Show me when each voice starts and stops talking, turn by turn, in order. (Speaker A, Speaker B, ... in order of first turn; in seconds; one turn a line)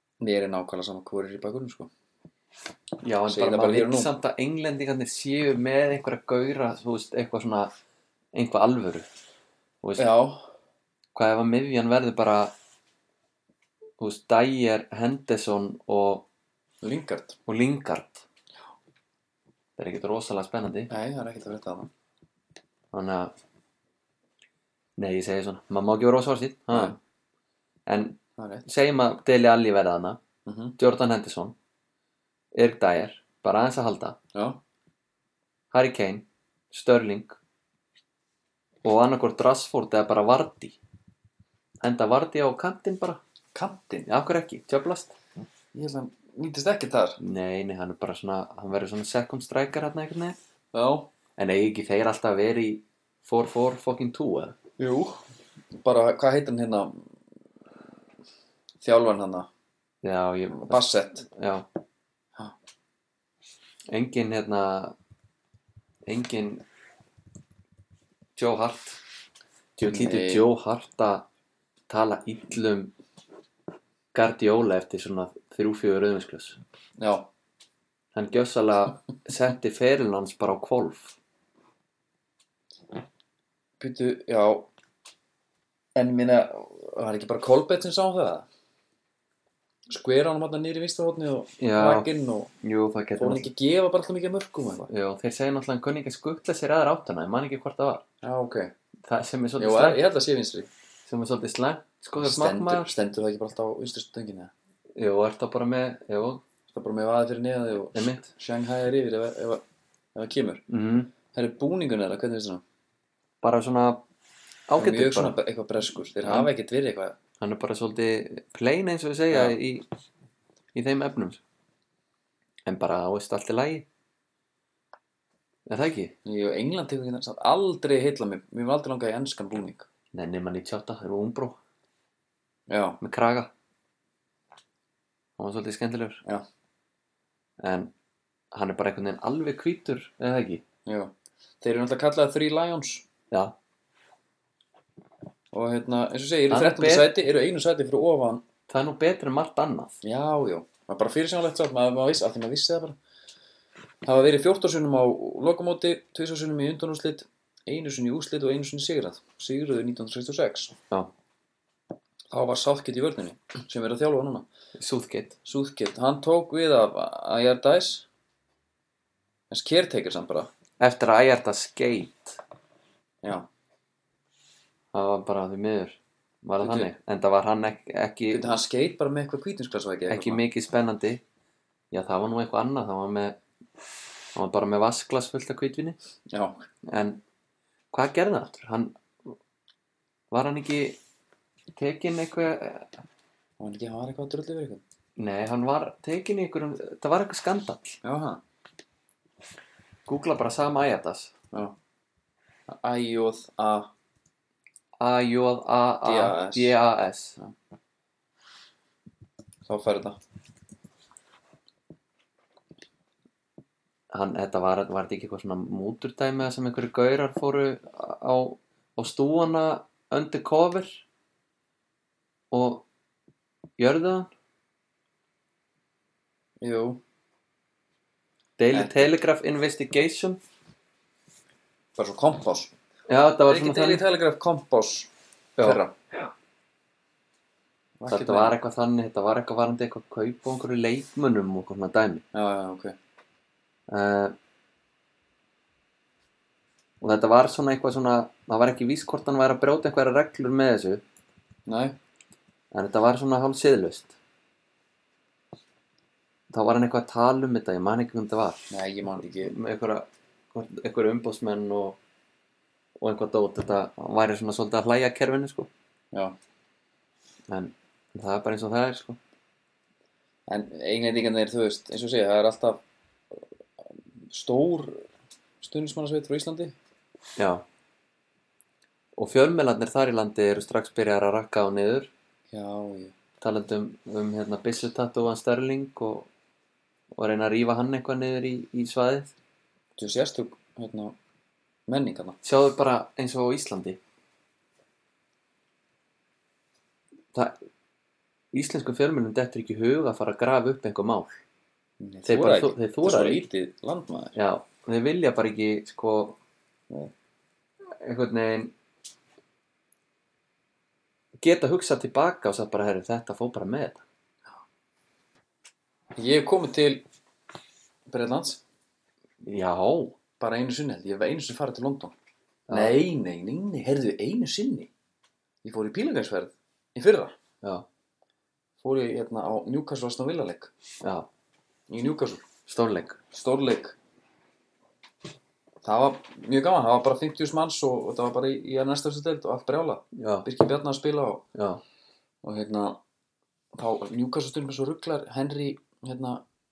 Speaker A: 0.2-1.9
Speaker B: 3.0-7.7
Speaker A: 3.3-4.1
Speaker B: 8.3-9.1
Speaker B: 9.8-10.1
Speaker A: 10.0-10.5
Speaker B: 11.1-12.5
Speaker B: 14.0-16.3
Speaker A: 16.8-17.4
Speaker B: 17.5-18.2
Speaker B: 19.8-20.9
Speaker A: 20.9-21.9
Speaker B: 22.9-23.3
Speaker B: 25.0-27.0
Speaker A: 26.7-27.0
Speaker B: 27.9-30.2
Speaker A: 28.4-28.6
Speaker A: 30.5-30.8
Speaker B: 30.8-31.6
Speaker B: 32.5-34.2
Speaker A: 34.4-34.6
Speaker B: 35.7-37.4
Speaker B: 38.8-40.8
Speaker B: 41.8-43.2
Speaker A: 43.5-44.1
Speaker B: 44.1-45.1
Speaker A: 45.7-47.2
Speaker B: 47.2-50.4
Speaker A: 50.7-51.1
Speaker B: 51.4-54.6
Speaker A: 54.8-55.2
Speaker A: 55.7-57.1
Speaker A: 58.8-59.5
Speaker B: 60.0-61.7
Speaker A: 60.5-61.3
Speaker B: 63.9-65.0
Speaker B: 66.0-66.6
Speaker B: 68.4-69.0
Speaker B: 69.8-71.3
Speaker A: 69.8-70.5
Speaker B: 71.9-72.9
Speaker B: 74.1-76.6
Speaker A: 77.0-77.3
Speaker B: 78.1-81.2
Speaker A: 83.8-84.7
Speaker A: 86.0-88.5
Speaker A: 89.9-92.5
Speaker B: 91.6-92.1
Speaker B: 92.6-93.5
Speaker A: 93.2-94.9
Speaker B: 94.9-98.0
Speaker A: 98.2-98.7
Speaker B: 99.0-100.0
Speaker A: 99.6-100.7
Speaker B: 101.1-102.9
Speaker A: 102.2-104.5
Speaker B: 105.0-106.4
Speaker A: 106.7-109.6
Speaker B: 107.9-108.3
Speaker A: 110.2-110.6
Speaker B: 110.7-111.1
Speaker A: 111.3-112.6
Speaker B: 113.4-114.0
Speaker B: 114.7-115.4
Speaker A: 114.8-117.2
Speaker B: 116.2-116.5
Speaker B: 117.4-119.9
Speaker A: 119.3-119.6
Speaker B: 120.7-121.4
Speaker B: 122.7-123.9
Speaker B: 125.7-126.2
Speaker A: 126.2-129.9
Speaker B: 130.1-131.6
Speaker A: 132.7-133.0
Speaker B: 133.0-133.5
Speaker B: 135.4-136.2
Speaker B: 137.6-137.9
Speaker B: 138.5-140.6
Speaker A: 140.9-143.1
Speaker A: 145.5-148.4
Speaker B: 146.5-147.1
Speaker B: 148.7-149.9
Speaker A: 150.0-153.0
Speaker A: 154.1-160.8
Speaker A: 162.3-164.5
Speaker B: 164.8-165.4
Speaker A: 165.4-168.1
Speaker A: 169.5-170.5
Speaker B: 170.8-172.4
Speaker B: 174.9-178.5
Speaker A: 176.6-176.9
Speaker A: 178.3-180.4
Speaker B: 180.1-181.2
Speaker B: 181.9-183.4
Speaker B: 184.3-186.0
Speaker A: 186.3-186.7
Speaker B: 186.8-187.2
Speaker B: 187.9-189.4
Speaker B: 190.3-191.0
Speaker B: 191.7-193.0
Speaker A: 193.6-194.8
Speaker B: 195.2-198.0
Speaker A: 198.0-198.4
Speaker B: 200.1-201.3
Speaker A: 202.7-203.9
Speaker B: 205.0-207.4
Speaker A: 206.0-206.8
Speaker A: 209.7-210.2
Speaker B: 214.1-221.0
Speaker B: 222.5-222.9
Speaker B: 223.8-224.3
Speaker A: 226.6-227.0
Speaker B: 228.6-230.4
Speaker A: 228.7-229.1
Speaker A: 232.0-232.7
Speaker B: 233.1-234.0
Speaker A: 233.5-235.9
Speaker B: 235.6-236.3
Speaker A: 238.0-238.6
Speaker B: 238.1-242.2
Speaker A: 242.3-242.9
Speaker B: 243.9-244.3
Speaker B: 247.0-251.0
Speaker A: 251.7-252.0
Speaker B: 252.7-254.2
Speaker B: 256.5-258.7
Speaker A: 258.7-259.6
Speaker B: 259.4-262.0
Speaker B: 263.0-265.7
Speaker B: 267.5-269.2
Speaker A: 270.5-272.8
Speaker A: 273.3-275.1
Speaker A: 275.6-276.8
Speaker B: 277.4-277.6
Speaker B: 279.1-282.1
Speaker A: 282.5-283.1
Speaker B: 283.4-286.3
Speaker B: 287.1-289.3
Speaker A: 290.0-291.2
Speaker A: 291.9-292.4
Speaker B: 292.4-294.0
Speaker B: 298.5-301.4
Speaker A: 302.0-304.4
Speaker B: 302.3-303.4
Speaker B: 304.4-306.4
Speaker B: 308.0-308.7
Speaker B: 311.4-314.0
Speaker A: 316.1-317.0
Speaker A: 318.1-318.6
Speaker B: 319.4-320.2
Speaker A: 320.4-322.1
Speaker B: 322.7-323.0
Speaker A: 322.7-324.9
Speaker A: 325.6-327.4
Speaker A: 328.8-330.7
Speaker B: 331.0-331.3
Speaker A: 331.9-332.4
Speaker B: 332.7-333.2
Speaker A: 333.3-334.0
Speaker A: 335.8-341.4
Speaker B: 340.1-340.5
Speaker B: 341.6-341.8
Speaker A: 342.4-343.0
Speaker A: 343.7-346.4